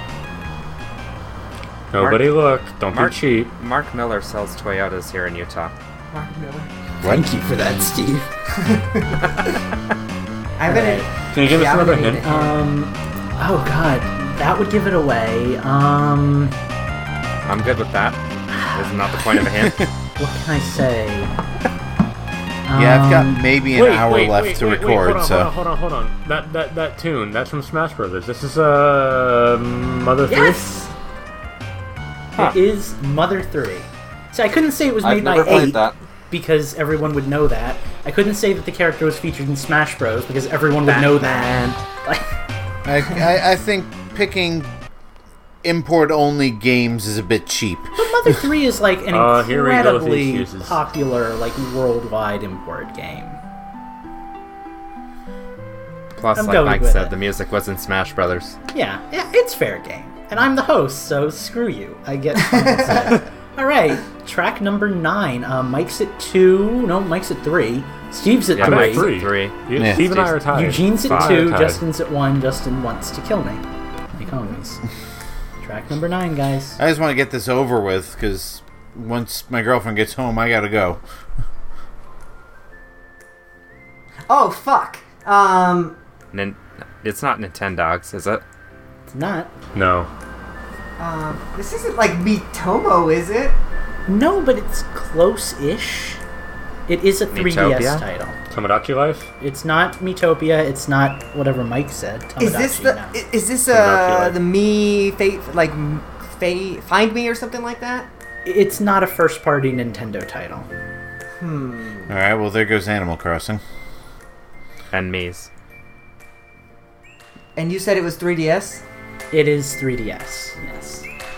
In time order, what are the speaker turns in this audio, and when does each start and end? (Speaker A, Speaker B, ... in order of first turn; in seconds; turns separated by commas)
Speaker A: 1.9-3.5, Speaker B: 2.0-2.3, Speaker B: 2.9-5.7, Speaker C: 6.1-6.7, Speaker D: 7.0-8.3, Speaker C: 8.6-9.3, Speaker C: 10.6-12.5, Speaker D: 10.7-11.1, Speaker A: 11.3-12.2, Speaker D: 12.2-16.6, Speaker B: 17.4-18.2, Speaker D: 18.6-19.0, Speaker B: 18.7-19.9, Speaker D: 20.2-21.3, Speaker D: 22.6-23.4, Speaker E: 22.7-25.5, Speaker A: 23.7-30.6, Speaker D: 30.3-30.9, Speaker D: 32.3-42.3, Speaker B: 35.0-35.9, Speaker B: 40.9-41.8, Speaker E: 42.8-44.7, Speaker E: 45.6-48.1, Speaker D: 48.0-53.4, Speaker A: 49.1-50.8, Speaker B: 56.1-58.6, Speaker D: 56.4-57.1, Speaker D: 58.7-69.1, Speaker C: 62.5-63.2, Speaker B: 68.5-70.4, Speaker A: 68.6-71.8, Speaker E: 69.8-70.0, Speaker D: 70.5-74.8, Speaker B: 71.0-71.4, Speaker D: 75.6-76.8, Speaker E: 76.8-81.0, Speaker C: 84.3-86.0, Speaker B: 86.3-88.4, Speaker D: 89.1-89.5, Speaker A: 89.7-90.1, Speaker C: 91.0-93.6, Speaker D: 94.1-96.2, Speaker D: 96.9-98.3, Speaker B: 97.3-98.0, Speaker A: 98.5-99.3, Speaker D: 99.4-103.2, Speaker C: 102.4-108.1, Speaker A: 103.7-104.4, Speaker D: 108.4-110.7, Speaker C: 111.4-112.1, Speaker E: 112.1-113.6, Speaker B: 114.9-115.5, Speaker C: 117.5-118.8, Speaker D: 119.3-121.0